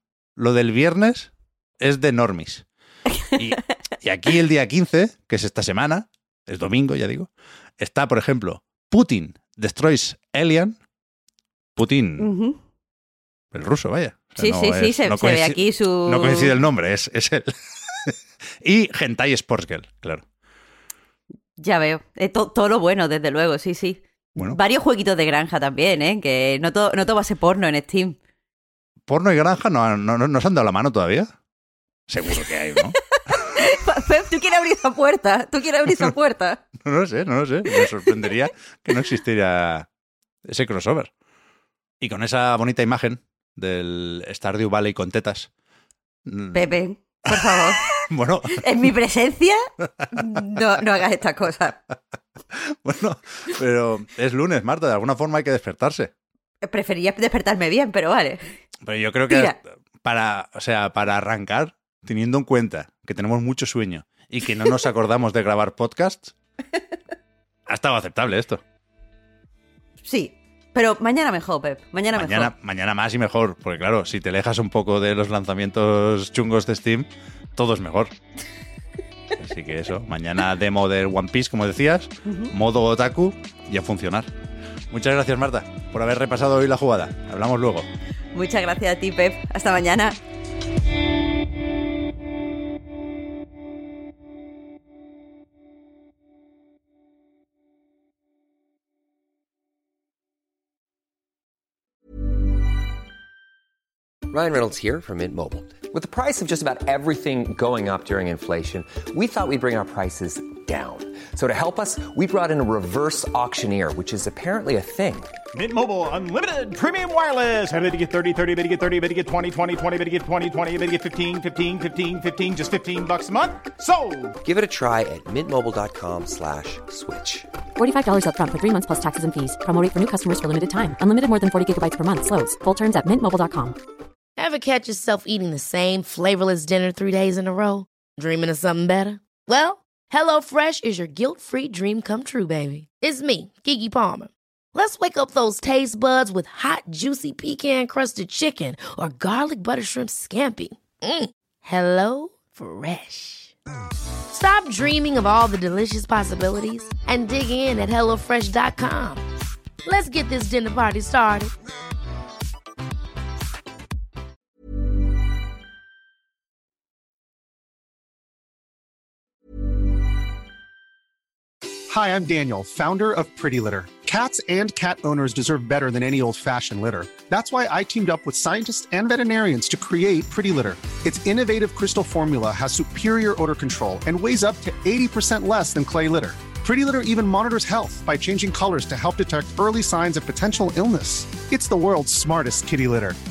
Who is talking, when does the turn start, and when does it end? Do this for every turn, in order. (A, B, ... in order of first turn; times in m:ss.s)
0:00.4-0:02.7 A
0:03.3-0:10.8 A
0:11.8-0:12.3 A
0:12.2-0:12.6 B
0:13.5-0:20.2 A
0:14.4-0:16.6 B
0:21.6-0:28.2 B
0:29.1-0:31.3 A
0:32.1-0:33.0 A
0:33.3-0:36.6 B
0:36.8-0:39.9 A
0:40.5-0:41.1 A
0:42.0-0:45.5 A
0:46.3-0:46.6 A
0:46.5-0:47.9 B
0:47.3-0:48.6 A
0:48.5-0:49.6 B
0:50.1-0:51.8 B
0:52.5-0:56.1 A
0:56.6-0:58.4 B
0:58.8-1:06.3 A
0:59.3-0:59.6 B
1:07.7-1:08.6 A
1:10.0-1:12.5 B
1:12.1-1:18.1 A
1:19.4-1:24.3 A
1:24.9-1:27.9 A
1:28.3-1:30.2 B
1:44.3-1:55.3 C
1:55.6-2:04.4 D
2:04.4-2:07.5 C
2:07.8-2:13.8 E
2:14.4-2:33.5 F
2:34.3-2:39.2 F
2:39.8-2:41.5 F
2:51.9-3:13.2 G